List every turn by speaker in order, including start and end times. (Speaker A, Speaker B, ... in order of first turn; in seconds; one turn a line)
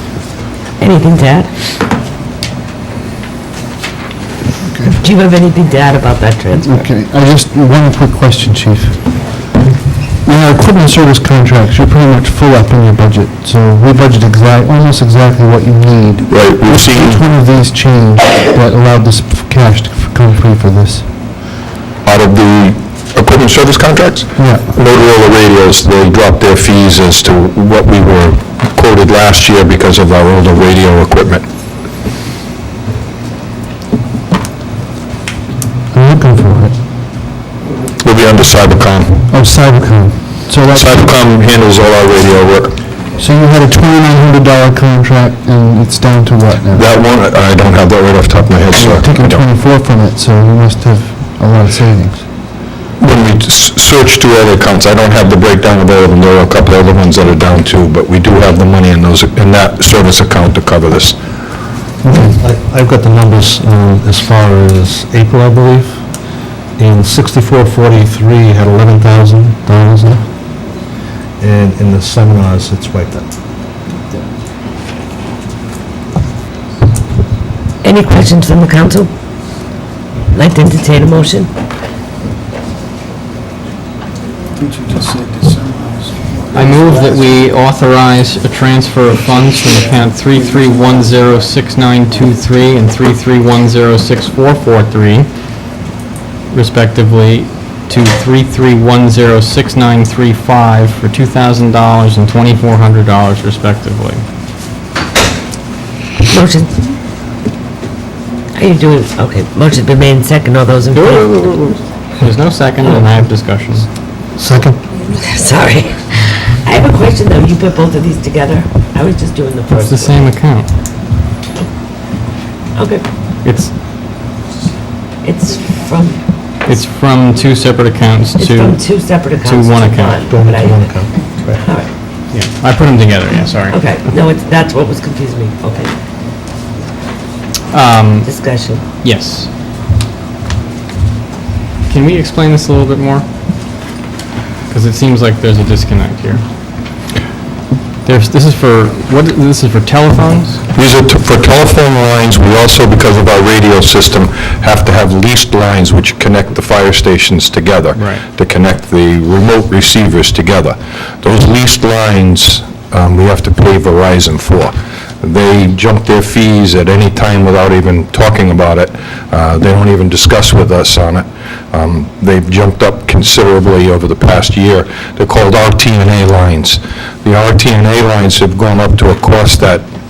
Speaker A: 0.8-1.5
Speaker A: 5.0-6.8
Speaker B: 6.6-9.2
Speaker B: 10.2-21.1
Speaker C: 16.3-17.2
Speaker C: 22.0-31.4
Speaker B: 24.4-24.8
Speaker B: 35.9-36.8
Speaker C: 38.0-39.2
Speaker B: 39.3-41.2
Speaker C: 40.6-42.8
Speaker B: 43.2-46.8
Speaker C: 46.7-49.4
Speaker B: 48.7-52.3
Speaker C: 53.0-61.2
Speaker D: 62.1-66.0
Speaker D: 66.8-69.9
Speaker B: 69.7-70.2
Speaker D: 71.4-73.3
Speaker A: 77.8-79.1
Speaker A: 80.3-81.5
Speaker E: 86.5-95.3
Speaker E: 96.5-104.2
Speaker A: 106.3-106.7
Speaker A: 108.5-111.3
Speaker E: 110.9-113.9
Speaker D: 114.3-114.8
Speaker A: 115.1-120.3
Speaker E: 119.8-120.7
Speaker A: 122.7-123.0
Speaker E: 123.4-123.7
Speaker A: 125.2-126.2
Speaker E: 126.6-130.2
Speaker A: 128.4-130.8
Speaker D: 130.3-131.6
Speaker A: 131.6-131.9
Speaker E: 132.3-133.8
Speaker A: 133.7-135.9
Speaker E: 137.7-138.3
Speaker A: 138.2-138.8
Speaker E: 139.0-139.5
Speaker E: 141.9-143.2
Speaker E: 144.7-146.4
Speaker E: 148.1-150.6
Speaker C: 150.7-179.8
Speaker E: 157.9-158.2